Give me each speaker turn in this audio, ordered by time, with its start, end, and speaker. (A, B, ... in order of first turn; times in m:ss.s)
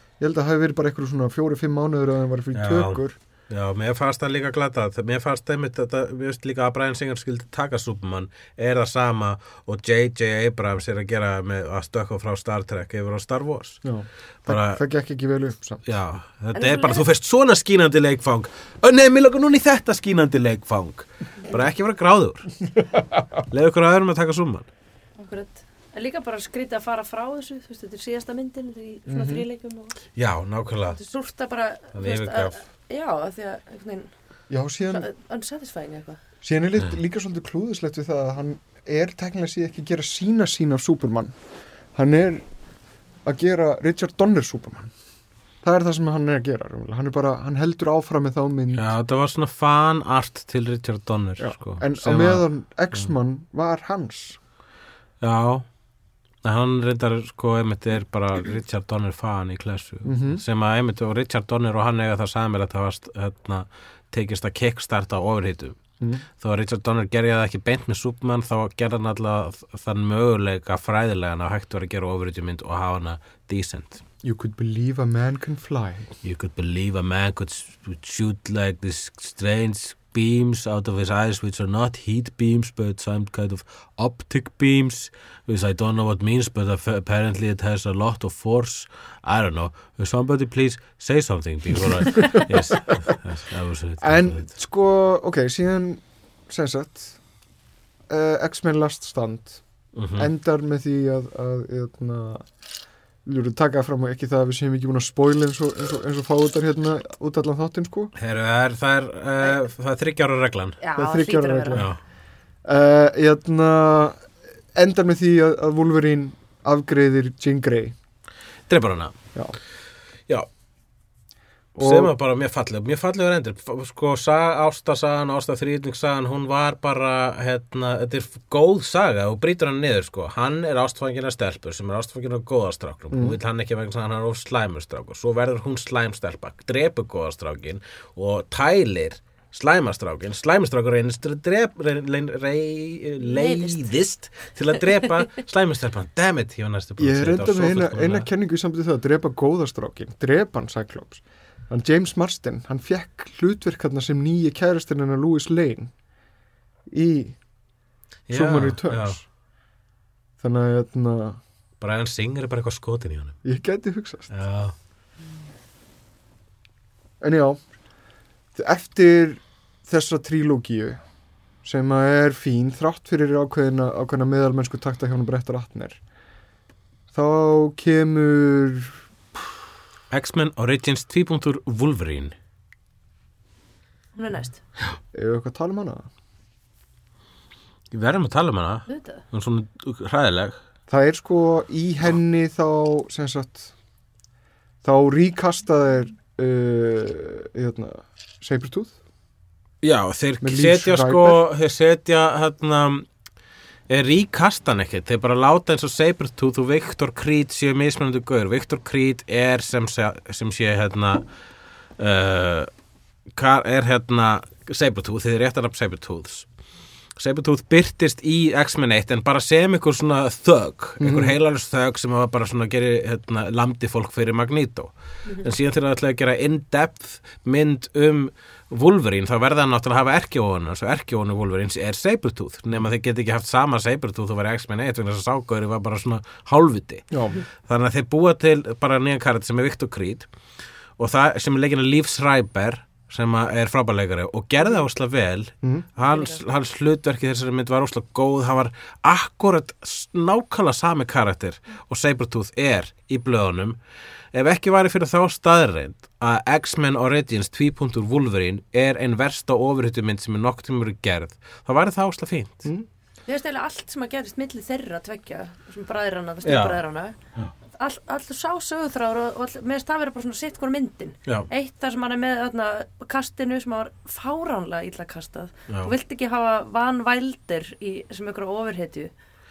0:00.2-0:03.2 A
0:02.5-0:13.8 B
0:13.8-0:15.8 A
0:14.4-0:14.8 B
0:15.8-0:22.5 B
0:16.5-0:17.0 C
0:23.5-0:24.7 B
0:25.2-0:30.0 C
0:29.1-0:29.5 A
0:30.1-0:31.0 B
0:30.9-0:34.1 C
0:31.9-0:32.6 B
0:34.5-0:35.1 A
0:34.9-0:36.2 C
0:36.4-0:41.3 A
0:41.9-0:42.4 A
0:43.2-0:44.9 A
0:45.6-0:48.9 A
0:48.7-0:52.5 B
0:51.4-0:54.4 A
0:55.2-0:55.7 B
0:56.4-1:05.8 B
1:00.0-1:00.4 A
1:06.4-1:14.0 B
1:14.2-1:16.1 A
1:16.2-1:34.5 B
1:34.0-1:37.2 A
1:38.1-1:39.6 A
1:39.9-1:40.3 B
1:40.1-1:42.5 A
1:43.2-1:48.1 A
1:48.2-1:50.8 B
1:50.8-1:51.8 C
1:51.0-1:51.9 A
1:51.7-1:52.0 B
1:52.6-1:57.9 A
1:58.7-1:59.1 B
2:01.8-2:28.3 B
2:01.8-2:02.1 A
2:13.1-2:13.4 A
2:23.2-2:23.9 C
2:27.0-2:35.9 A
2:36.9-2:37.4 A
2:38.3-2:39.2 B
2:38.3-2:39.2 A
2:40.4-2:41.4 A
2:41.8-2:43.4 B
2:43.4-2:44.3 A
2:44.3-2:44.7 B
2:47.2-2:47.6 A
2:48.5-2:51.0 A
2:51.6-2:56.0 A
2:57.1-2:59.0 A
3:00.1-3:02.3 B
3:04.1-3:04.6 C
3:05.1-3:06.1 A
3:07.9-3:10.6 B
3:08.9-3:09.2 C
3:10.9-3:13.7 A
3:14.8-3:19.0 A
3:19.8-3:23.1 B
3:20.4-3:21.4 A
3:23.9-3:31.3 B
3:32.0-3:32.7 B
3:33.3-3:36.5 B
3:37.2-3:57.1 B
3:41.0-3:41.3 A
3:57.1-3:57.4 A
3:57.6-4:00.3 B
4:01.0-4:13.8 B
4:06.1-4:06.4 C
4:14.3-4:22.7 B
4:23.3-4:27.2 C
4:26.4-4:26.8 B
4:27.7-4:39.1 C
4:35.7-4:35.9 B